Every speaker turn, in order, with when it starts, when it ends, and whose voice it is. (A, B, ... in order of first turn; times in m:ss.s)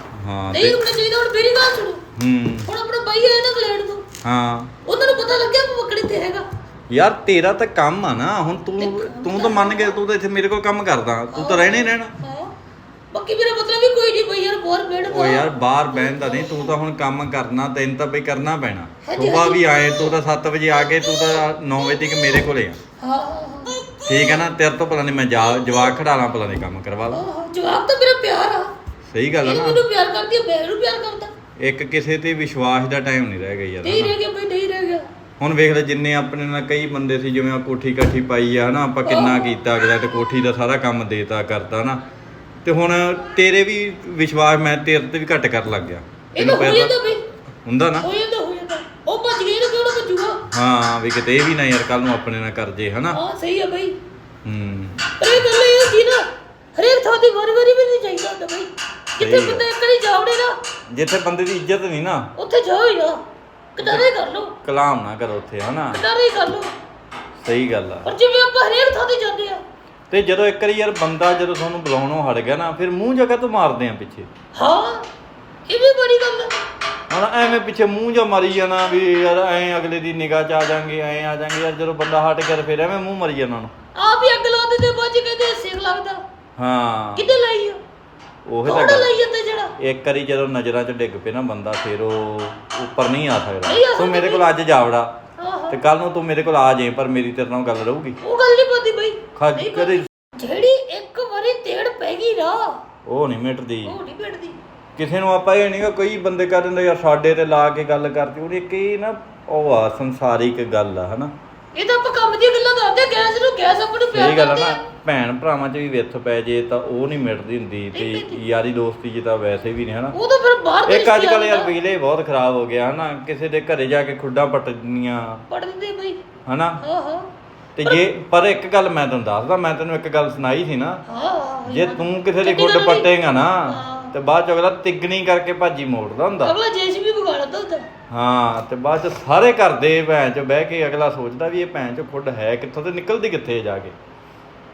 0:00.1-0:00.8 A
0:00.5-0:02.0 B
0:02.2-0:02.7 A
0:02.7-0:04.1 B
0:04.2-0:04.7 A
0:04.8-0:06.4 B
0:06.9-0:12.2 A
0:08.8-0:10.0 B
0:11.3-0:12.5 B
0:13.1-0:16.8 B
0:15.1-0:22.8 A
0:19.0-0:20.1 B
0:20.8-0:22.4 B
0:23.0-0:24.4 B
0:24.0-0:27.2 A
0:25.6-0:25.9 B
0:27.1-0:28.7 B
0:29.1-0:29.8 A
0:29.4-0:31.3 B
0:31.6-0:34.2 A
0:33.8-0:35.1 B
0:35.4-0:42.0 A
0:39.0-0:39.6 B
0:42.6-0:46.9 A
0:46.4-0:47.2 B
0:47.6-0:48.1 A
0:48.0-0:50.5 B
0:50.5-0:53.2 A
0:53.1-0:54.0 B
0:54.4-0:55.1 A
0:55.2-1:00.6 B
0:59.2-0:59.6 A
1:00.9-1:02.3 A
1:02.4-1:03.2 B
1:03.8-1:04.6 B
1:03.8-1:04.1 A
1:04.6-1:06.0 A
1:05.9-1:06.7 B
1:07.4-1:08.1 A
1:08.0-1:09.6 B
1:10.1-1:14.3 A
1:14.6-1:15.1 B
1:15.7-1:16.5 B
1:17.1-1:23.7 A
1:24.0-1:26.2 B
1:26.6-1:27.3 A
1:27.2-1:27.8 B
1:28.5-1:29.1 A
1:28.6-1:29.7 B
1:29.8-1:35.1 A
1:33.7-1:34.5 B
1:35.4-1:35.8 B
1:35.7-1:38.2 A
1:38.2-1:42.8 B
1:39.4-1:40.1 A
1:43.1-1:44.0 A
1:43.8-1:44.6 B
1:45.0-1:51.3 A
1:51.7-1:54.8 B
1:54.1-2:00.2 A
1:57.9-1:58.4 B
2:00.1-2:01.7 B
2:00.9-2:05.4 A
2:05.5-2:06.2 B
2:06.5-2:06.8 A
2:06.8-2:07.3 B
2:07.8-2:11.0 A
2:11.1-2:13.1 B
2:11.7-2:16.5 A
2:13.6-2:14.1 B
2:16.4-2:17.9 B
2:18.1-2:23.9 A